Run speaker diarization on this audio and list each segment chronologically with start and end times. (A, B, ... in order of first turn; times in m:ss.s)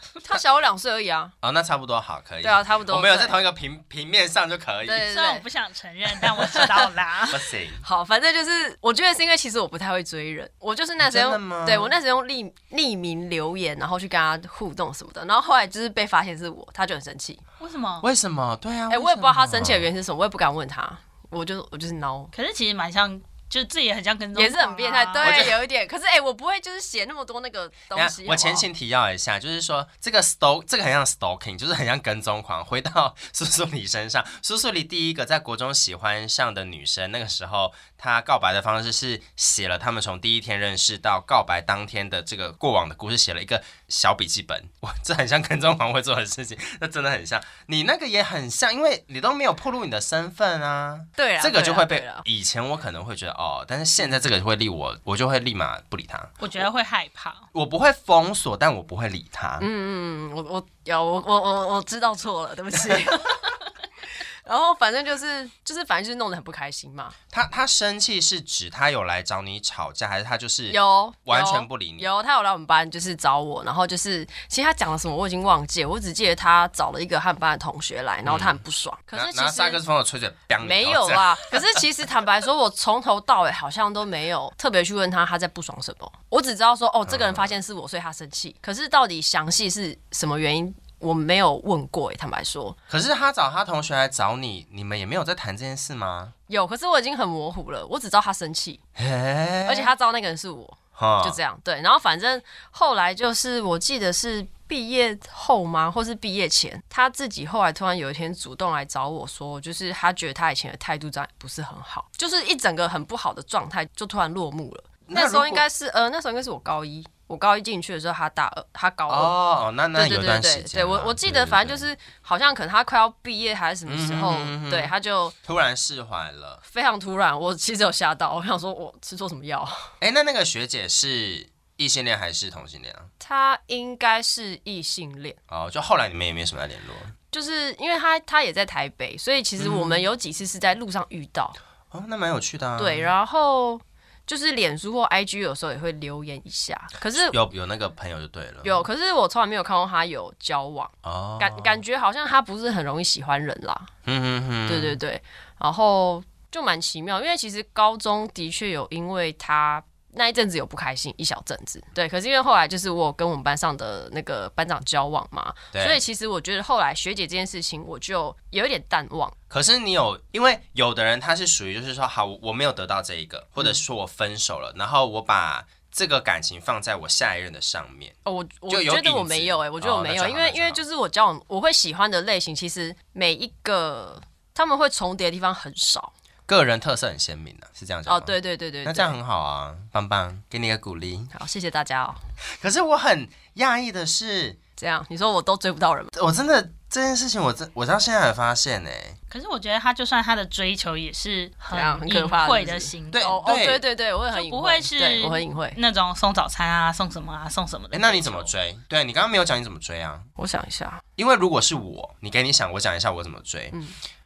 0:00.2-0:01.3 A
0:01.4-0:05.1 B
0:02.4-0:03.4 A
0:04.9-0:05.4 A
0:05.1-0:07.5 C
0:06.3-0:06.7 A
0:07.3-0:07.8 B
0:07.8-0:17.4 A
0:11.0-0:12.0 B
0:17.6-0:18.1 C
0:18.0-0:19.9 B
0:18.9-0:22.3 A
0:22.3-0:25.5 C
0:24.4-0:28.7 A
0:25.2-0:25.6 B
0:27.9-0:56.6 B
0:51.2-0:52.2 A
0:56.4-0:57.5 C
0:57.5-0:59.7 B
0:59.6-1:03.5 A
1:04.4-1:07.2 A
1:07.3-1:12.1 B
1:10.7-1:19.8 A
1:18.2-1:18.6 B
1:19.1-1:21.8 B
1:20.6-1:32.8 A
1:27.1-1:27.5 B
1:32.9-1:36.3 B
1:36.5-1:38.8 A
1:39.0-1:39.9 B
1:39.6-1:59.3 A
1:41.0-1:41.4 B
1:55.1-1:55.6 B
1:59.1-2:01.9 B
1:59.9-2:05.4 A
2:03.9-2:04.9 B
2:05.4-2:06.6 B
2:06.6-2:09.9 A
2:10.0-2:13.1 B
2:13.2-2:15.4 A
2:15.5-2:17.1 B
2:17.3-2:21.6 A
2:19.6-2:20.1 B
2:21.9-2:23.1 B
2:22.8-2:27.4 A
2:27.1-2:28.8 B
2:28.6-2:33.9 A
2:31.0-2:31.8 B
2:34.0-2:35.0 B
2:34.7-2:49.4 A
2:45.7-2:46.0 B
2:49.5-2:58.2 B
2:58.2-3:06.1 A
2:58.7-3:00.8 B
3:06.5-3:11.3 B
3:08.1-3:09.2 A
3:11.3-3:12.2 A
3:12.6-3:14.6 B
3:14.8-3:16.1 A
3:16.2-3:19.2 B
3:19.3-3:23.4 C
3:21.7-3:25.8 A
3:23.1-3:23.8 B
3:24.3-3:28.5 C
3:27.9-3:30.3 B
3:30.4-3:31.0 A
3:31.2-3:33.8 B